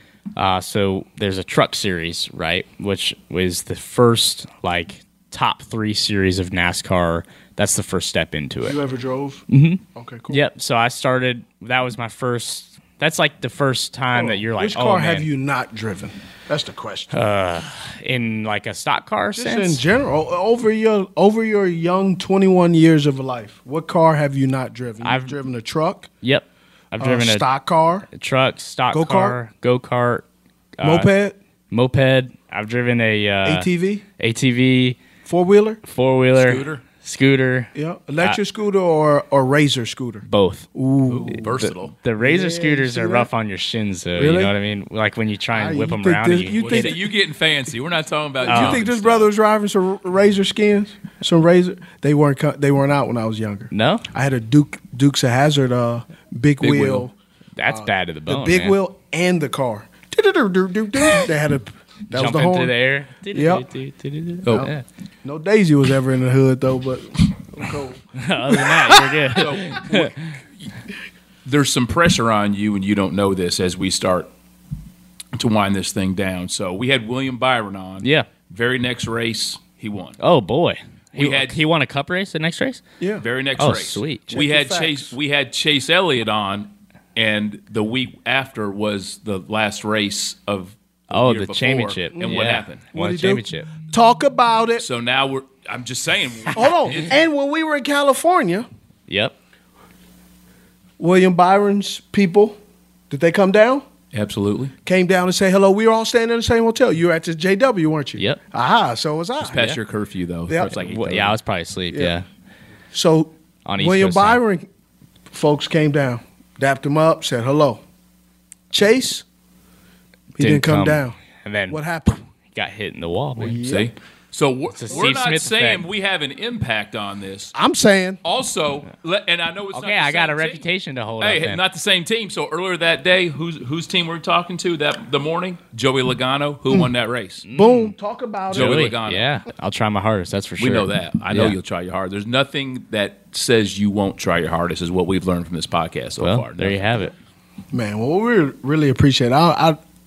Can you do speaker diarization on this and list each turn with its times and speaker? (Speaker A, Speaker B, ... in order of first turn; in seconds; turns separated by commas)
Speaker A: 0.4-8.8, Speaker B: 8.6-10.4, Speaker A: 9.5-15.3, Speaker B: 14.1-17.1, Speaker A: 17.1-19.8, Speaker B: 19.4-26.1, Speaker A: 25.0-25.4, Speaker A: 26.2-27.5, Speaker B: 27.0-28.1, Speaker A: 28.1-30.2, Speaker B: 28.9-29.4, Speaker A: 30.8-31.1, Speaker B: 30.8-31.4, Speaker A: 31.7-33.7, Speaker B: 33.5-34.0, Speaker A: 34.2-35.0, Speaker B: 35.2-35.8, Speaker A: 35.9-38.4, Speaker C: 36.4-36.8, Speaker B: 37.7-41.4, Speaker A: 40.3-40.7, Speaker C: 41.1-41.9, Speaker A: 41.3-47.0, Speaker B: 42.2-43.3, Speaker B: 44.2-44.5, Speaker B: 45.5-47.0, Speaker C: 46.5-49.3, Speaker B: 48.4-57.1, Speaker A: 48.5-48.8, Speaker A: 53.7-54.0, Speaker C: 56.6-57.1, Speaker A: 57.6-58.8, Speaker B: 57.7-62.7, Speaker A: 62.1-64.8, Speaker B: 63.3-63.6, Speaker B: 65.2-69.4, Speaker A: 68.2-70.3, Speaker C: 69.4-70.7, Speaker C: 71.5-74.3, Speaker C: 75.3-80.2, Speaker A: 78.0-78.3, Speaker A: 80.2-82.8, Speaker C: 81.1-81.6, Speaker B: 83.0-83.2, Speaker C: 83.2-92.8, Speaker A: 83.6-84.4, Speaker B: 84.3-85.1, Speaker A: 91.1-93.7, Speaker B: 92.9-94.8, Speaker C: 94.8-97.1, Speaker B: 96.5-98.7, Speaker A: 99.1-99.3, Speaker B: 101.0-102.6, Speaker B: 103.1-103.9, Speaker C: 104.1-104.7, Speaker B: 104.8-109.8, Speaker C: 109.4-111.4, Speaker B: 110.5-110.7, Speaker A: 110.7-112.3, Speaker B: 112.9-114.7, Speaker A: 113.7-114.4, Speaker B: 115.3-117.8, Speaker B: 118.7-119.2, Speaker B: 120.4-121.2, Speaker A: 120.4-123.6, Speaker B: 121.7-122.2, Speaker B: 123.4-123.9, Speaker C: 123.6-127.5, Speaker A: 124.7-125.8, Speaker B: 127.5-128.2, Speaker C: 128.2-130.7, Speaker A: 129.7-131.6, Speaker C: 131.2-137.4, Speaker A: 137.5-137.9, Speaker B: 137.5-138.9, Speaker C: 138.5-139.3, Speaker A: 138.5-141.6, Speaker C: 140.6-147.1, Speaker A: 146.2-147.1, Speaker B: 147.7-149.8